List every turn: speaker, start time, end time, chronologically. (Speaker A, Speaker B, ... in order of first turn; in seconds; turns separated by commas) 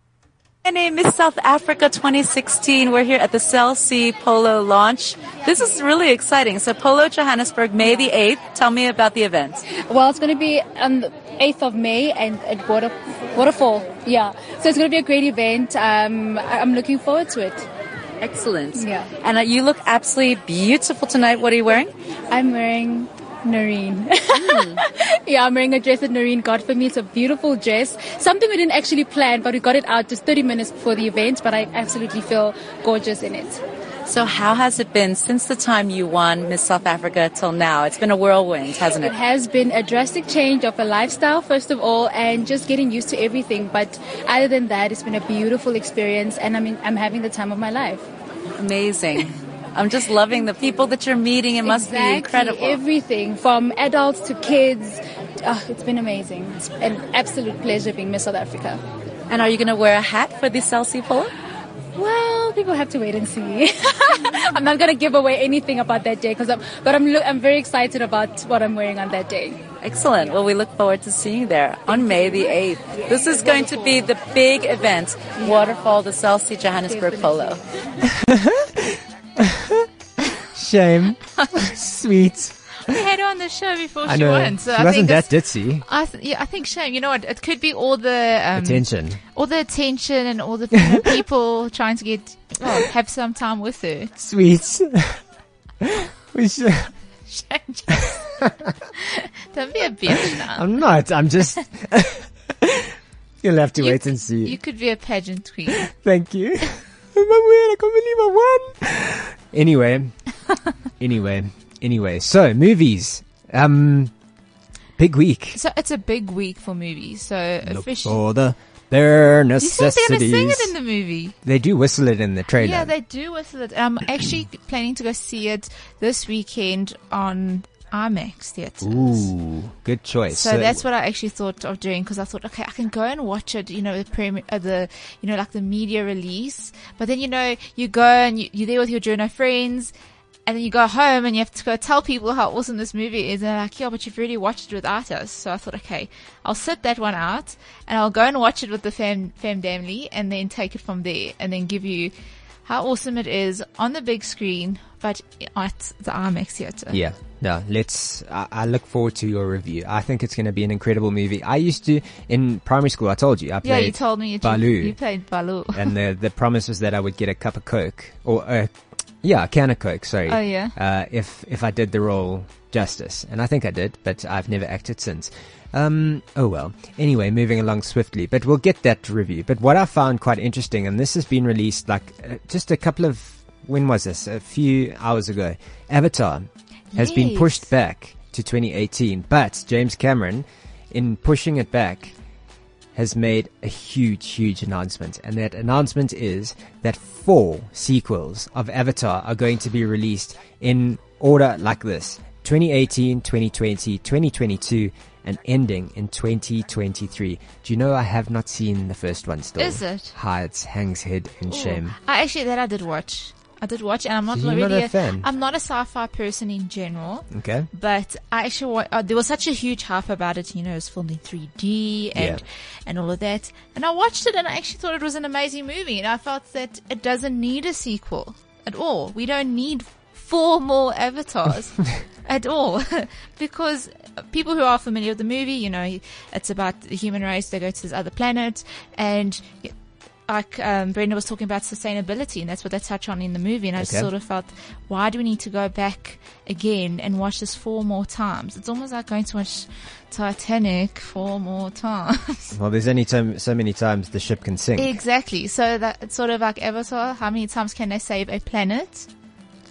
Speaker A: 0.6-9.6, Speaker B: 9.7-17.7, Speaker A: 18.2-21.9, Speaker B: 18.8-19.1, Speaker B: 22.3-33.6, Speaker A: 24.3-24.8, Speaker A: 34.1-39.1, Speaker B: 38.9-48.1, Speaker A: 48.6-52.8, Speaker B: 51.6-58.8, Speaker A: 59.3-61.3, Speaker B: 62.0-69.7, Speaker A: 69.8-77.6, Speaker C: 78.0-79.9, Speaker C: 80.4-83.0, Speaker D: 82.8-94.1, Speaker C: 84.0-85.8, Speaker C: 88.5-89.2, Speaker C: 94.2-95.2, Speaker C: 95.8-96.9, Speaker D: 97.3-98.4, Speaker D: 99.0-100.7, Speaker C: 100.3-104.6, Speaker D: 103.8-105.9, Speaker C: 105.7-110.2, Speaker C: 111.0-114.1, Speaker C: 115.0-115.6, Speaker D: 115.5-118.2, Speaker C: 117.6-120.7, Speaker D: 119.6-121.4, Speaker C: 121.4-122.9, Speaker D: 122.6-129.3, Speaker C: 128.8-130.9, Speaker D: 130.3-139.9, Speaker D: 140.5-152.1, Speaker D: 152.6-157.0, Speaker C: 156.9-165.0, Speaker D: 163.6-165.9, Speaker C: 165.7-192.1, Speaker D: 170.3-170.8, Speaker D: 186.9-187.7, Speaker C: 192.9-211.9, Speaker D: 209.6-210.1, Speaker D: 211.5-239.7, Speaker C: 214.3-215.3, Speaker C: 217.3-217.7, Speaker C: 222.2-222.4, Speaker D: 240.3-252.5, Speaker C: 243.8-244.1, Speaker C: 252.5-255.0, Speaker D: 254.8-259.1